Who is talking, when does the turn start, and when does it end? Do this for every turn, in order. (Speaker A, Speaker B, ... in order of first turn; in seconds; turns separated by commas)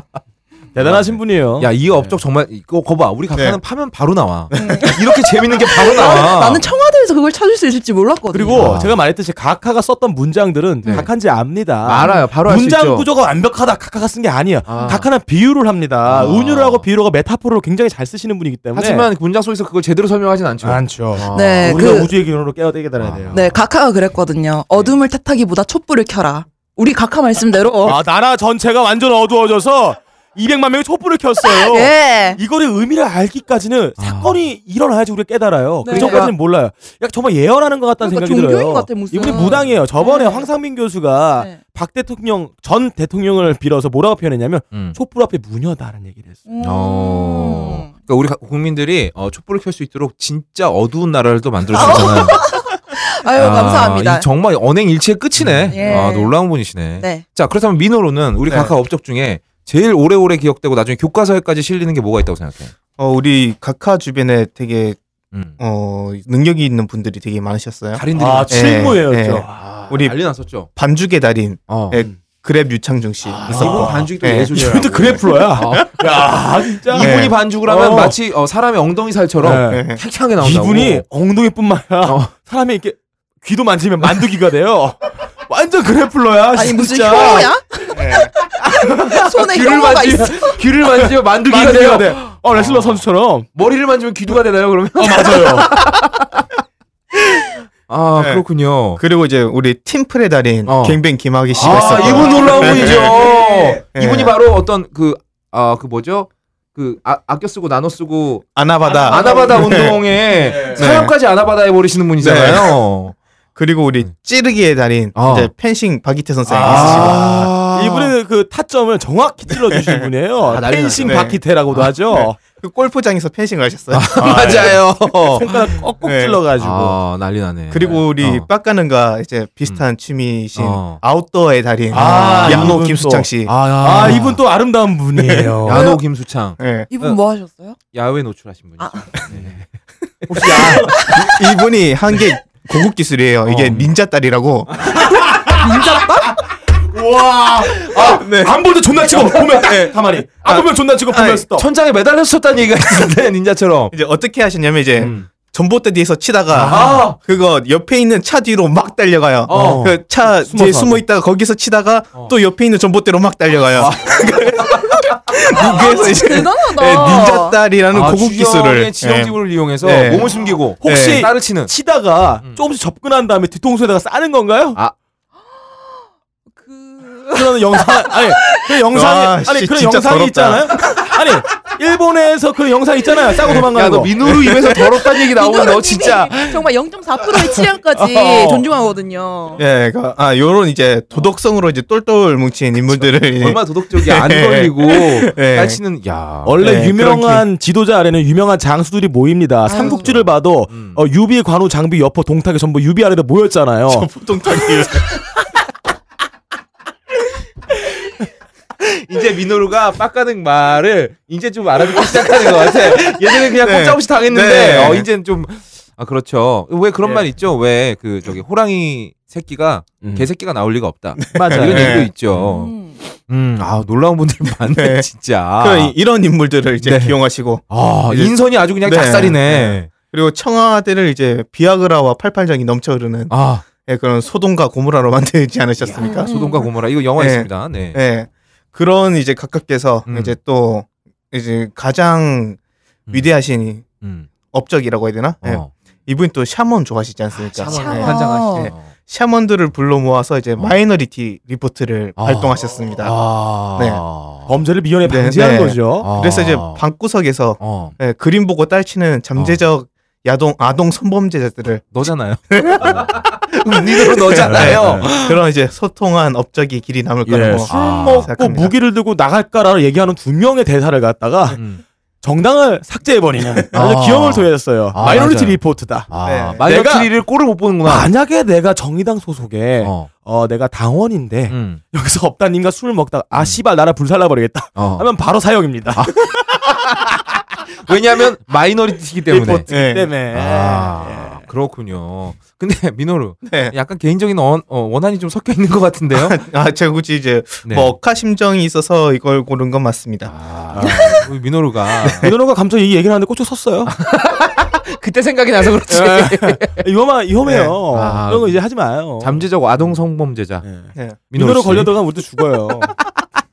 Speaker A: 0.7-2.1, Speaker B: 0.8-6.7, Speaker C: 3.3-3.6, Speaker C: 4.5-4.9, Speaker D: 4.5-8.7, Speaker A: 8.3-19.1, Speaker B: 8.5-8.9, Speaker B: 10.8-11.1, Speaker B: 11.8-13.1, Speaker D: 12.0-12.2, Speaker B: 14.7-15.1, Speaker B: 16.0-16.9, Speaker B: 18.7-21.9, Speaker A: 20.6-23.4, Speaker D: 21.3-22.1, Speaker B: 23.0-23.6, Speaker D: 23.3-28.0, Speaker A: 27.8-46.4, Speaker D: 31.4-32.4, Speaker B: 34.0-34.4, Speaker D: 35.8-36.3, Speaker B: 35.9-36.4, Speaker D: 38.0-40.5, Speaker B: 44.7-45.0, Speaker D: 46.5-47.9, Speaker B: 46.6-52.4, Speaker D: 51.7-54.3, Speaker B: 53.4-62.7, Speaker A: 55.4-56.0, Speaker D: 55.7-56.4, Speaker D: 57.0-57.2, Speaker C: 58.5-58.7, Speaker C: 63.0-65.0, Speaker C: 65.6-74.5, Speaker B: 67.9-69.0, Speaker A: 68.2-69.6, Speaker B: 69.5-70.7, Speaker B: 71.7-72.0, Speaker A: 73.3-78.2, Speaker B: 73.4-76.2, Speaker B: 76.9-81.0, Speaker C: 76.9-77.4, Speaker A: 79.4-79.8, Speaker C: 79.7-80.0, Speaker A: 80.4-87.5, Speaker B: 82.0-82.3, Speaker D: 86.5-88.0, Speaker C: 87.9-88.3, Speaker D: 88.8-90.6, Speaker B: 89.0-93.0, Speaker A: 91.5-93.5, Speaker B: 93.5-96.5, Speaker A: 95.0-95.7, Speaker B: 97.9-99.0, Speaker C: 98.2-98.4, Speaker C: 99.0-103.3, Speaker B: 100.7-101.0, Speaker B: 101.5-108.5, Speaker A: 101.6-103.8, Speaker C: 103.9-104.3, Speaker C: 108.5-110.0, Speaker A: 108.9-110.9, Speaker B: 109.0-113.1, Speaker C: 110.7-111.1, Speaker C: 112.2-112.8, Speaker C: 113.5-117.2, Speaker B: 115.1-115.5, Speaker A: 116.5-122.4, Speaker B: 116.6-118.1, Speaker C: 119.7-120.1, Speaker B: 120.5-121.9, Speaker C: 121.0-121.4, Speaker C: 122.1-125.1, Speaker B: 123.9-125.5, Speaker A: 124.2-124.7, Speaker A: 125.3-127.0, Speaker C: 126.0-126.4, Speaker B: 126.6-128.5, Speaker C: 127.7-134.2, Speaker B: 130.6-131.0, Speaker A: 131.9-135.9, Speaker B: 131.9-132.8, Speaker B: 133.4-134.4, Speaker B: 135.6-137.2, Speaker C: 136.6-136.9, Speaker D: 136.9-137.8, Speaker B: 137.9-139.6, Speaker D: 138.8-139.2, Speaker A: 140.3-141.2, Speaker B: 140.4-140.8, Speaker C: 140.4-144.9, Speaker B: 143.4-143.9, Speaker A: 144.9-145.7, Speaker D: 145.5-146.4, Speaker A: 146.8-151.7, Speaker C: 147.9-148.6, Speaker C: 149.1-151.4, Speaker B: 151.5-153.9, Speaker C: 153.9-171.3, Speaker B: 155.0-155.2, Speaker A: 156.6-157.1, Speaker B: 156.6-157.2, Speaker B: 159.5-159.9, Speaker A: 159.5-161.0, Speaker B: 163.7-166.2, Speaker D: 165.6-167.6, Speaker B: 167.9-171.7, Speaker A: 170.8-174.8, Speaker D: 176.6-178.7, Speaker A: 177.3-184.1, Speaker C: 178.9-181.1, Speaker B: 183.7-186.7, Speaker C: 184.2-184.8, Speaker D: 185.0-189.6, Speaker C: 189.6-195.8, Speaker B: 192.9-196.8, Speaker A: 196.4-204.1, Speaker C: 196.6-197.4, Speaker D: 199.7-200.1, Speaker B: 200.0-201.0, Speaker C: 203.9-205.2, Speaker B: 208.8-222.7, Speaker C: 212.6-215.1, Speaker A: 220.0-220.3, Speaker C: 221.2-222.1, Speaker A: 221.3-222.1, Speaker D: 222.4-223.0, Speaker B: 223.3-225.9, Speaker C: 224.7-236.3, Speaker B: 226.8-227.2, Speaker B: 227.7-229.9, Speaker B: 233.3-233.6, Speaker B: 235.8-238.0, Speaker D: 236.0-236.7, Speaker C: 237.2-242.6, Speaker B: 240.1-240.4, Speaker C: 243.1-243.9, Speaker B: 244.0-244.3, Speaker C: 244.5-253.2, Speaker B: 245.4-245.7, Speaker B: 247.3-248.9, Speaker D: 247.6-248.7, Speaker B: 252.2-254.5, Speaker C: 253.7-254.0, Speaker A: 254.5-256.1, Speaker C: 255.0-268.7, Speaker B: 256.0-256.8, Speaker B: 257.6-257.9, Speaker B: 261.9-265.4, Speaker A: 264.5-265.1, Speaker A: 267.2-271.6, Speaker B: 267.7-268.3, Speaker B: 271.5-271.8, Speaker A: 272.2-276.1, Speaker B: 273.7-278.1, Speaker C: 276.2-276.6, Speaker A: 276.6-277.1, Speaker A: 277.9-286.1, Speaker B: 279.8-280.1, Speaker B: 281.5-281.8, Speaker B: 284.8-285.1, Speaker B: 285.9-287.0, Speaker B: 287.7-289.7, Speaker A: 289.3-291.4, Speaker C: 289.7-290.1, Speaker B: 290.3-296.4, Speaker C: 293.4-293.7, Speaker C: 296.1-300.3, Speaker B: 297.6-297.9, Speaker B: 300.2-302.3, Speaker A: 300.7-301.3, Speaker C: 302.0-302.3, Speaker A: 302.2-303.9, Speaker B: 303.9-306.8, Speaker A: 305.9-309.5, Speaker C: 307.4-307.8, Speaker B: 307.9-308.6, Speaker B: 309.2-310.6, Speaker A: 310.6-312.9, Speaker B: 311.3-311.9